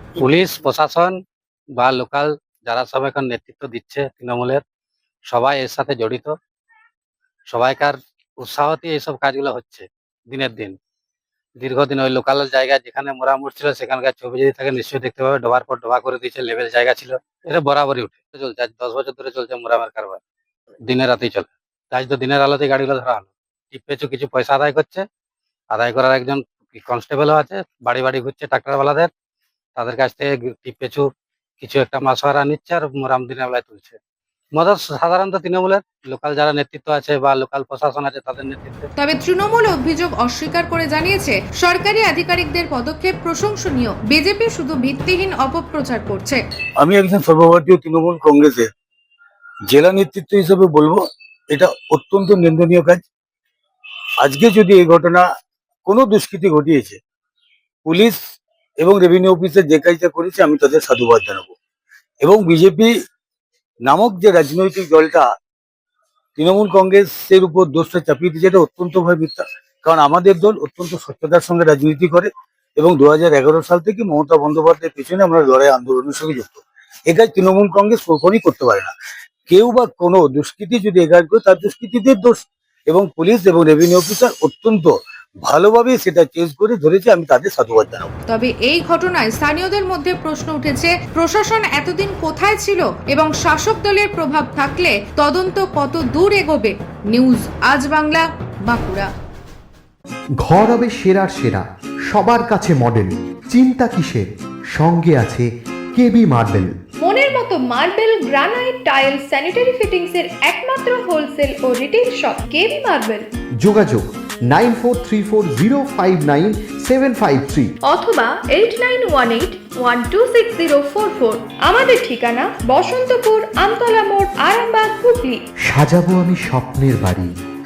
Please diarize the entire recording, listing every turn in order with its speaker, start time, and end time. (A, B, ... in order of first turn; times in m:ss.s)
0:00.2-0:01.1 A
0:01.8-0:04.6 A
0:05.3-0:06.3 A
0:07.5-0:10.8 A
0:11.6-0:20.2 A
0:20.9-0:25.0 A
0:25.7-0:29.1 A
0:29.8-0:31.0 A
0:31.6-0:34.0 A
0:34.5-0:38.9 A
0:39.0-0:46.4 B
0:46.8-0:48.7 C
0:49.7-0:53.0 C
0:54.2-0:55.2 C
0:55.8-0:57.0 C
0:57.8-0:58.2 C
0:58.8-1:01.5 C
1:02.2-1:02.9 C
1:03.9-1:05.2 C
1:06.4-1:16.6 C
1:17.1-1:18.9 C
1:19.5-1:24.9 C
1:25.4-1:28.1 C
1:28.3-1:39.1 B
1:40.4-1:46.7 D
1:47.0-1:53.3 E
1:53.6-1:57.7 D
1:57.8-2:05.4 E
2:05.7-2:07.3 D